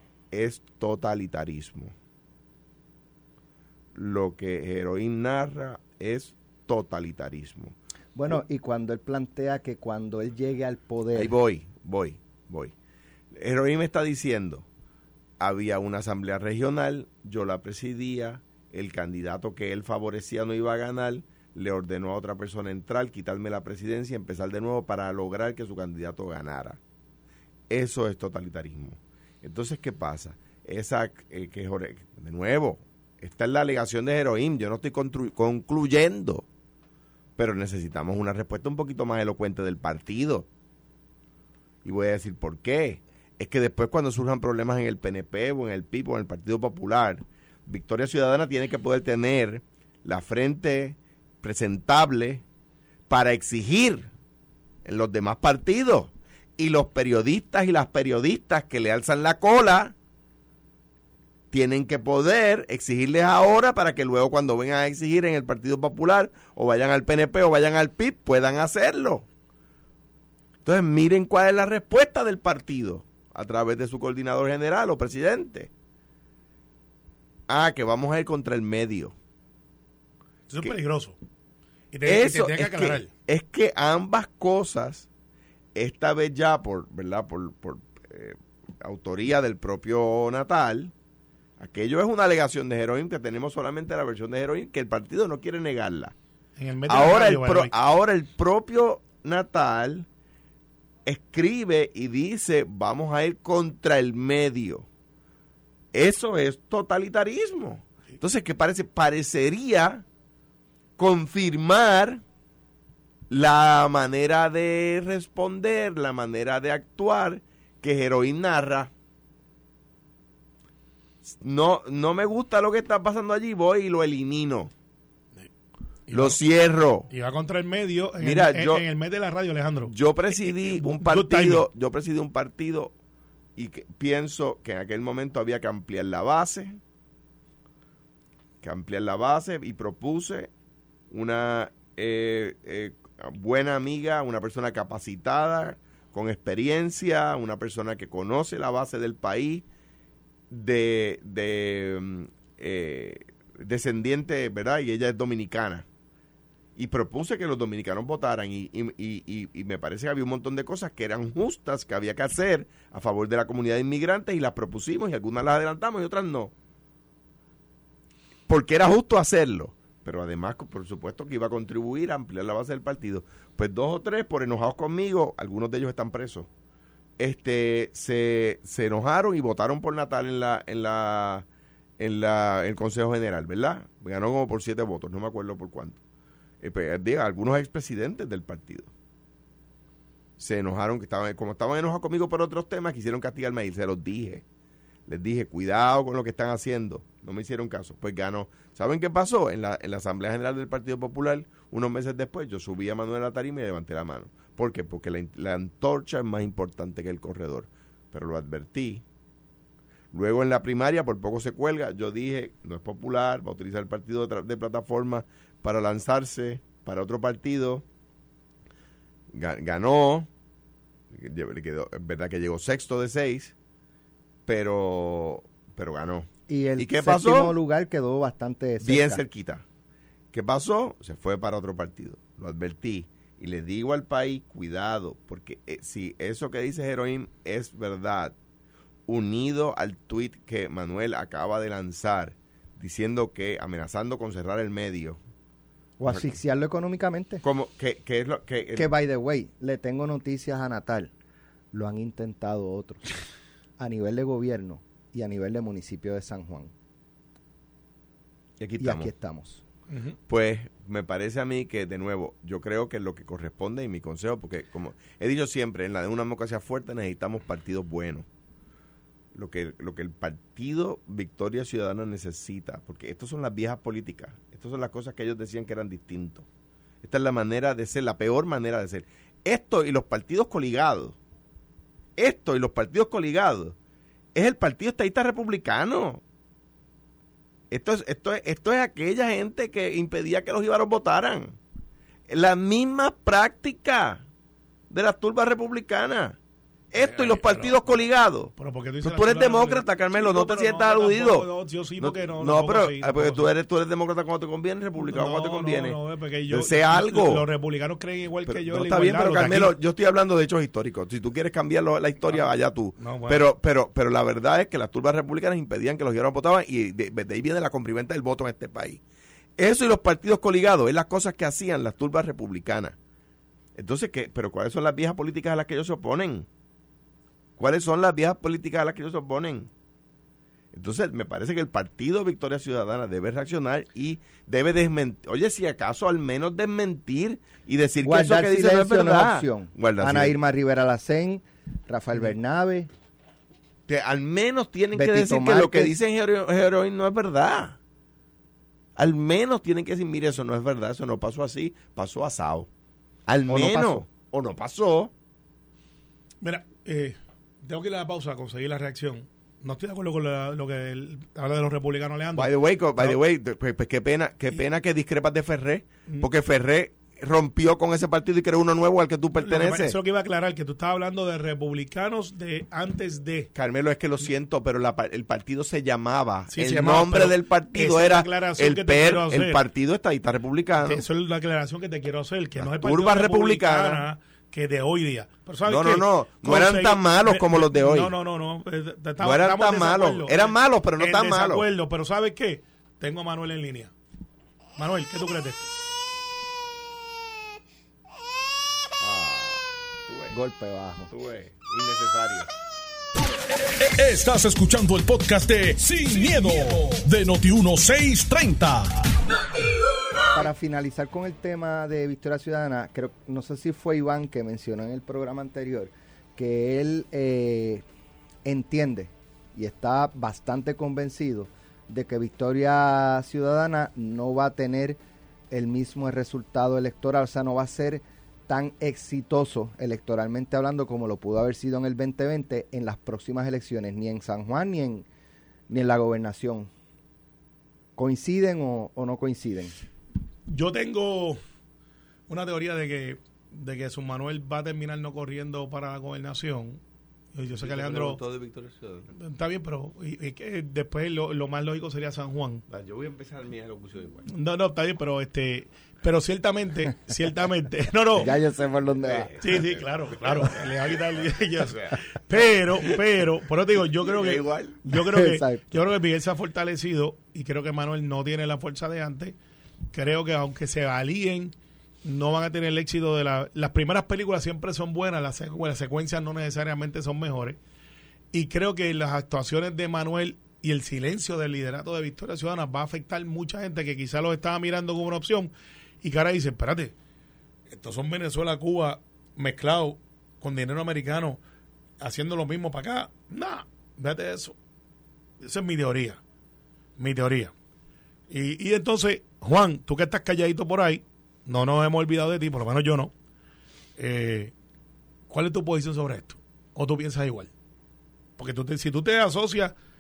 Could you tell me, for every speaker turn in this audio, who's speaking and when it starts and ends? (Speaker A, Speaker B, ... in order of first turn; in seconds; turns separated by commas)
Speaker A: 0.3-1.9, Speaker A: 4.0-7.8, Speaker B: 8.2-11.4, Speaker A: 11.2-12.7, Speaker A: 13.3-14.7, Speaker A: 15.4-26.8, Speaker A: 27.7-36.5, Speaker A: 37.4-40.5, Speaker A: 41.8-52.4, Speaker A: 53.1-54.1, Speaker A: 54.9-59.9, Speaker A: 61.5-69.3, Speaker A: 70.7-75.7, Speaker A: 77.5-79.2, Speaker C: 80.5-81.2, Speaker C: 81.9-83.1, Speaker A: 82.1-85.1, Speaker A: 85.8-90.9, Speaker A: 91.6-96.1, Speaker C: 96.6-97.7, Speaker A: 96.9-100.1, Speaker A: 101.0-104.9, Speaker A: 105.9-110.0, Speaker A: 111.0-112.2, Speaker A: 113.3-118.9, Speaker A: 121.3-124.7, Speaker C: 126.1-126.4, Speaker A: 126.1-127.1, Speaker C: 127.1-131.7, Speaker A: 128.2-128.8, Speaker A: 129.9-132.9, Speaker A: 133.6-136.8, Speaker A: 138.6-140.5, Speaker A: 141.1-149.7, Speaker A: 150.5-155.9, Speaker A: 156.8-166.5, Speaker A: 168.5-176.5, Speaker A: 177.2-181.5, Speaker A: 182.0-186.0, Speaker A: 186.6-188.9, Speaker A: 190.4-194.4, Speaker A: 195.1-209.0, Speaker A: 210.1-217.8, Speaker A: 219.3-220.3, Speaker A: 221.1-223.5, Speaker A: 224.5-227.6, Speaker B: 226.5-229.2, Speaker A: 228.8-229.6, Speaker A: 230.3-238.3, Speaker A: 239.1-245.2, Speaker B: 246.0-247.4, Speaker A: 247.4-248.9, Speaker B: 248.8-251.1, Speaker B: 251.7-253.2, Speaker B: 253.8-256.7, Speaker A: 258.6-259.1, Speaker B: 258.8-259.6, Speaker C: 259.9-260.2, Speaker A: 260.3-268.3, Speaker A: 269.3-276.5, Speaker A: 277.0-281.2, Speaker A: 282.2-283.8, Speaker A: 284.4-286.2, Speaker A: 287.7-291.6, Speaker A: 292.3-294.2, Speaker A: 294.9-296.4, Speaker A: 296.9-298.5, Speaker C: 297.0-298.0, Speaker C: 298.6-303.5, Speaker A: 299.0-301.5, Speaker A: 302.0-306.0, Speaker C: 305.0-309.7, Speaker A: 306.5-307.5, Speaker A: 308.5-319.0, Speaker C: 313.0-313.4, Speaker A: 319.6-322.9, Speaker A: 323.8-326.5, Speaker A: 327.6-329.7, Speaker A: 330.7-340.3, Speaker B: 338.0-342.9, Speaker A: 343.9-347.8, Speaker B: 344.9-345.9, Speaker A: 349.0-352.7, Speaker A: 353.3-355.1, Speaker B: 353.5-354.1, Speaker C: 356.4-363.2, Speaker A: 362.4-370.0, Speaker C: 369.4-373.5, Speaker A: 373.6-381.0, Speaker C: 376.5-379.6, Speaker C: 380.8-393.9, Speaker A: 382.6-384.0, Speaker A: 385.6-388.1, Speaker A: 389.2-391.7, Speaker C: 394.8-395.7, Speaker A: 399.0-400.4, Speaker B: 400.3-401.1, Speaker A: 401.1-402.5, Speaker D: 403.5-409.2, Speaker B: 410.3-417.9, Speaker B: 418.4-425.0, Speaker B: 425.5-435.1, Speaker B: 435.7-436.7, Speaker B: 438.0-439.8, Speaker C: 440.5-441.4, Speaker C: 442.3-446.8, Speaker C: 447.4-448.2, Speaker A: 447.6-449.1, Speaker C: 449.1-452.6, Speaker A: 452.7-454.3, Speaker C: 454.3-458.3, Speaker B: 458.2-459.3, Speaker A: 459.0-461.0, Speaker C: 459.4-469.4, Speaker A: 461.6-462.0, Speaker A: 463.9-464.8, Speaker B: 465.0-465.8, Speaker C: 469.9-477.6, Speaker C: 478.3-486.9, Speaker C: 487.7-491.4, Speaker C: 492.0-494.6, Speaker C: 495.4-496.2, Speaker C: 497.0-497.5, Speaker C: 498.3-503.1, Speaker C: 504.0-504.5, Speaker C: 505.3-507.5, Speaker C: 508.4-509.7